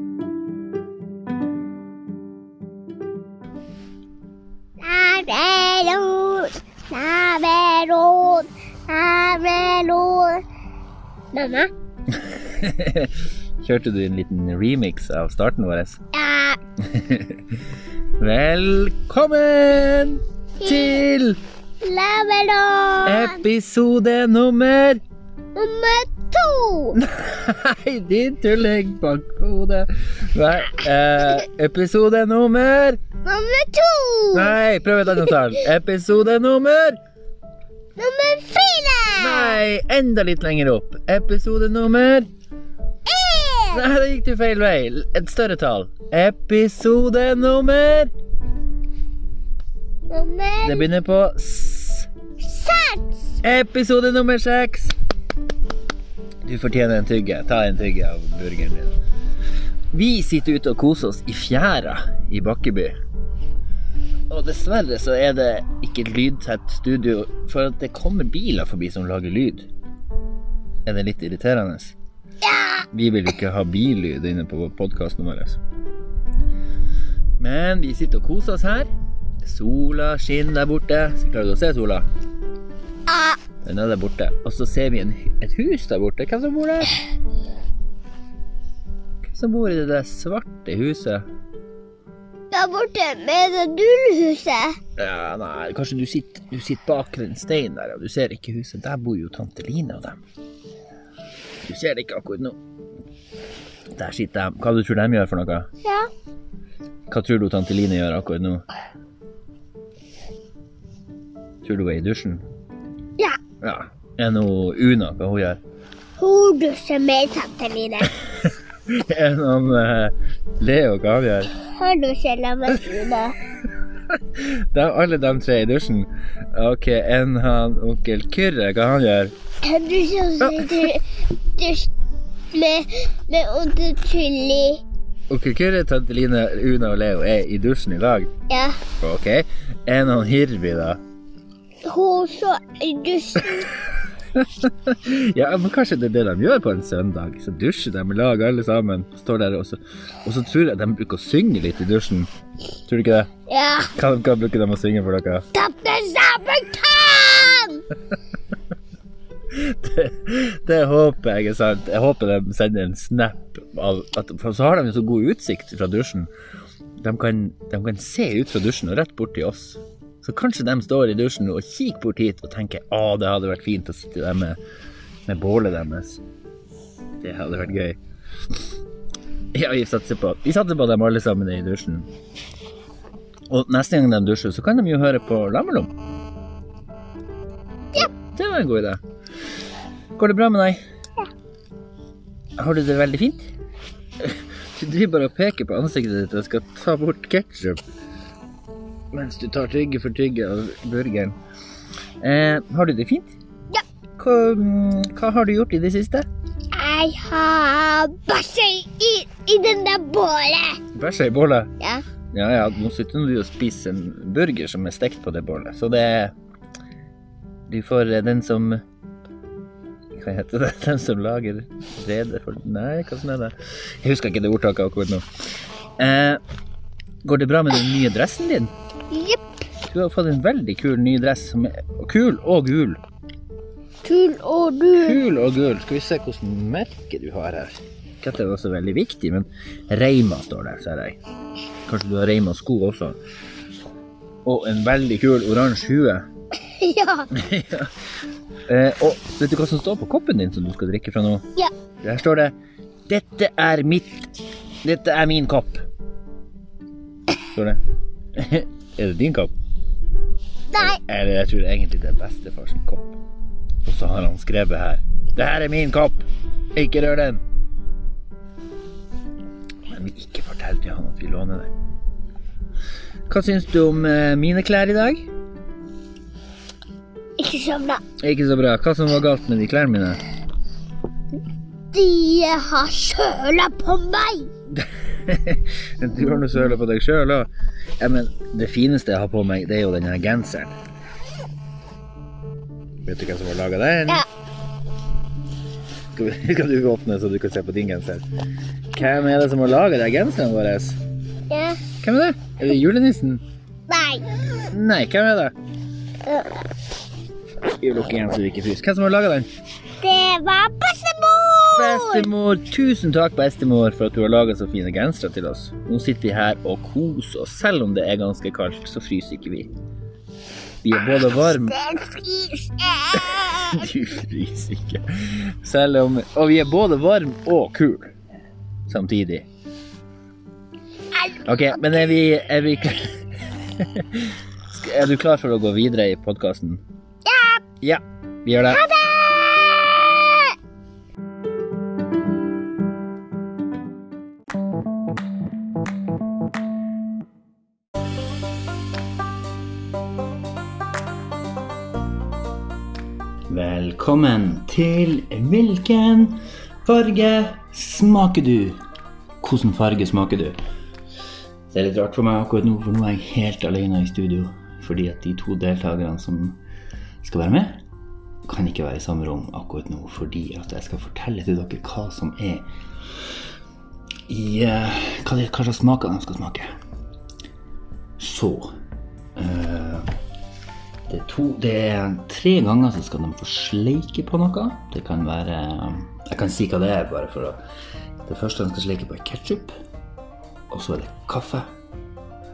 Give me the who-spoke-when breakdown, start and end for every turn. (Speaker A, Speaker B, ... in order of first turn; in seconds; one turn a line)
Speaker A: 4.8-10.4
Speaker A: 11.3-11.7
Speaker B: 12.1-16.0
Speaker A: 16.1-16.6
Speaker B: 16.9-17.4
Speaker B: 18.2-21.4
Speaker A: 20.6-21.0
Speaker A: 21.8-23.4
Speaker B: 23.0-25.0
Speaker A: 25.6-27.0
Speaker B: 27.0-33.0
Speaker A: 33.2-34.6
Speaker B: 34.3-37.0
Speaker A: 38.0-39.6
Speaker B: 39.2-42.3
Speaker A: 43.1-43.8
Speaker B: 43.7-48.1
Speaker A: 50.1-50.9
Speaker B: 50.6-52.1
Speaker A: 52.4-53.2
Speaker B: 53.4-54.9
Speaker B: 56.4-59.0
Speaker B: 59.9-63.0
Speaker B: 64.3-69.7
Speaker B: 70.8-72.0
Speaker A: 72.4-72.8
Speaker B: 72.9-75.6
Speaker B: 77.4-78.9
Speaker B: 79.4-82.1
Speaker A: 83.1-83.4
Speaker B: 83.6-86.9
Speaker B: 89.2-91.3
Speaker A: 92.5-94.8
Speaker B: 95.0-100.2
Speaker B: 101.6-102.6
Speaker B: 103.9-105.7
Speaker A: 105.8-106.1
Speaker B: 107.1-108.7
Speaker B: 111.6-112.4
Speaker B: 113.6-115.6
Speaker A: 116.2-118.1
Speaker B: 118.9-121.5
Speaker A: 121.6-123.4
Speaker B: 124.1-129.3
Speaker A: 129.6-131.9
Speaker B: 130.4-130.9
Speaker A: 132.5-134.8
Speaker B: 135.3-138.3
Speaker A: 138.5-138.8
Speaker B: 139.0-141.0
Speaker A: 141.8-143.7
Speaker B: 144.4-152.3
Speaker B: 152.9-153.3
Speaker A: 153.5-153.9
Speaker B: 153.9-155.5
Speaker A: 155.5-157.8
Speaker B: 159.5-166.3
Speaker B: 167.0-174.6
Speaker B: 175.3-176.2
Speaker B: 177.2-178.0
Speaker B: 179.5-182.1
Speaker B: 183.5-185.9
Speaker B: 187.9-189.0
Speaker B: 190.2-190.8
Speaker B: 192.6-193.5
Speaker B: 194.2-197.8
Speaker B: 199.1-201.4
Speaker B: 202.2-203.3
Speaker B: 204.2-206.3
Speaker A: 206.7-210.8
Speaker B: 210.9-211.7
Speaker B: 212.3-216.3
Speaker B: 217.7-218.8
Speaker B: 220.2-225.2
Speaker B: 226.0-226.4
Speaker B: 227.2-228.7
Speaker A: 229.1-229.4
Speaker B: 229.9-233.0
Speaker A: 234.0-235.2
Speaker B: 234.9-241.2
Speaker B: 241.9-243.2
Speaker B: 244.4-246.3
Speaker A: 246.7-247.3
Speaker B: 247.3-247.9
Speaker B: 248.7-251.5
Speaker B: 252.0-252.5
Speaker B: 253.1-254.3
Speaker B: 254.8-255.8
Speaker B: 257.5-257.8
Speaker B: 258.4-259.5
Speaker A: 260.7-261.0
Speaker B: 260.8-263.2
Speaker B: 263.8-267.4
Speaker B: 269.9-271.7
Speaker B: 273.3-275.3
Speaker A: 277.4-278.0
Speaker B: 278.2-280.2
Speaker A: 281.9-284.5
Speaker B: 284.7-290.7
Speaker B: 293.1-294.2
Speaker B: 296.1-298.2
Speaker B: 298.9-301.0
Speaker A: 301.5-301.8
Speaker B: 302.0-303.4
Speaker A: 303.9-304.3
Speaker B: 304.7-305.5
Speaker A: 306.2-306.6
Speaker B: 307.8-309.5
Speaker A: 310.0-312.3
Speaker B: 311.7-319.7
Speaker B: 320.8-321.8
Speaker A: 321.0-323.8
Speaker B: 323.2-328.1
Speaker B: 328.9-329.5
Speaker A: 331.1-332.1
Speaker B: 331.4-333.2
Speaker B: 333.8-336.8
Speaker A: 337.2-337.6
Speaker B: 337.8-338.8
Speaker A: 338.6-340.5
Speaker B: 353.5-358.8
Speaker B: 359.4-360.6
Speaker B: 361.7-366.6
Speaker B: 367.2-367.8
Speaker B: 368.5-372.7
Speaker B: 374.3-376.7
Speaker B: 378.2-378.7
Speaker B: 379.4-380.1
Speaker B: 381.1-387.6
Speaker B: 388.2-389.8
Speaker B: 390.7-391.7